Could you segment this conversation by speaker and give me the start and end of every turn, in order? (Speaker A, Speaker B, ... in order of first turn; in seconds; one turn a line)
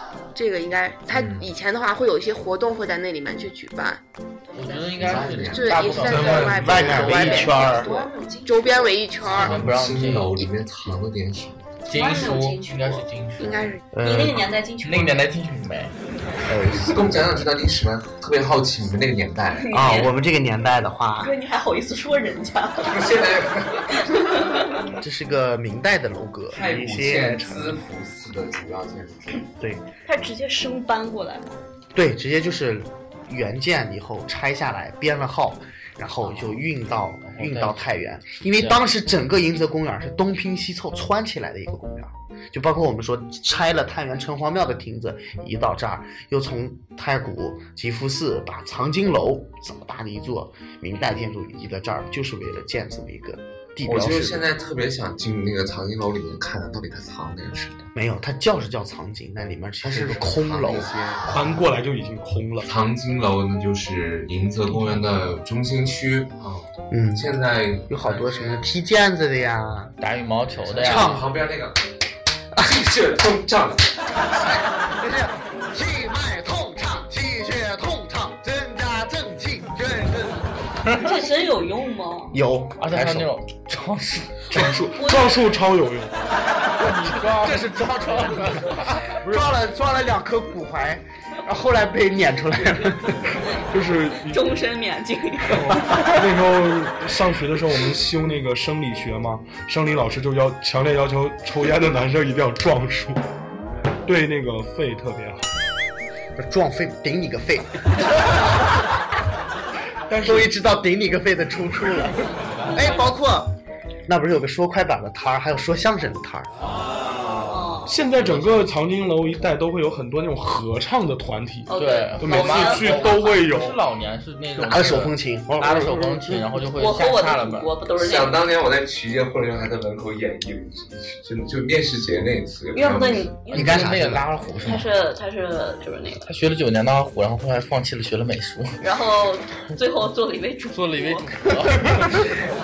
Speaker A: 0.3-4.0
Speaker B: 1.1-1.5
Speaker C: 4.5-7.7
Speaker B: 5.0-6.5
Speaker A: 5.0-9.7
Speaker D: 6.3-7.9
Speaker E: 7.3-8.9
Speaker B: 9.2-11.8
Speaker C: 9.2-10.4
Speaker C: 11.9-13.7
Speaker E: 11.9-13.1
Speaker A: 13.4-13.8
Speaker D: 13.9-14.5
Speaker E: 14.0-15.3
Speaker C: 14.8-15.9
Speaker D: 16.5-17.5
Speaker B: 16.8-19.7
Speaker E: 19.6-20.1
Speaker D: 19.7-21.4
Speaker E: 21.2-23.0
Speaker B: 22.8-24.1
Speaker E: 24.0-24.8
Speaker D: 25.0-27.8
Speaker B: 26.5-29.4
Speaker E: 30.1-31.6
Speaker D: 31.9-54.5
Speaker C: 36.2-36.7
Speaker C: 37.2-37.9
Speaker C: 38.6-38.9
Speaker B: 53.8-57.9
Speaker D: 58.0-60.9
Speaker B: 59.8-61.6
Speaker F: 61.3-62.7
Speaker B: 62.6-68.7
Speaker D: 66.9-67.3
Speaker D: 67.9-69.9
Speaker C: 70.0-71.2
Speaker B: 70.7-71.8
Speaker D: 70.8-71.3
Speaker B: 72.6-74.0
Speaker D: 74.5-80.5
Speaker E: 80.9-82.4
Speaker D: 82.3-83.3
Speaker C: 82.8-84.7
Speaker F: 84.5-86.3
Speaker E: 84.6-85.5
Speaker C: 86.8-89.1
Speaker D: 89.2-93.2
Speaker F: 89.3-89.5
Speaker F: 93.7-94.5
Speaker E: 94.2-96.1
Speaker F: 95.5-103.2
Speaker F: 104.1-105.5
Speaker D: 106.4-108.8
Speaker F: 110.1-110.5
Speaker D: 110.2-112.2
Speaker E: 112.7-113.1
Speaker D: 112.7-113.5
Speaker D: 114.1-116.5
Speaker E: 117.5-118.1
Speaker F: 117.9-123.8
Speaker C: 118.2-118.7
Speaker E: 121.7-123.4
Speaker C: 121.7-127.7
Speaker D: 124.6-126.5
Speaker E: 126.7-128.4
Speaker B: 128.0-133.4
Speaker E: 132.7-134.1
Speaker C: 133.5-134.9
Speaker D: 133.5-134.3
Speaker E: 134.6-136.3
Speaker C: 136.2-138.8
Speaker E: 138.8-141.3
Speaker C: 140.7-142.1
Speaker D: 141.7-142.2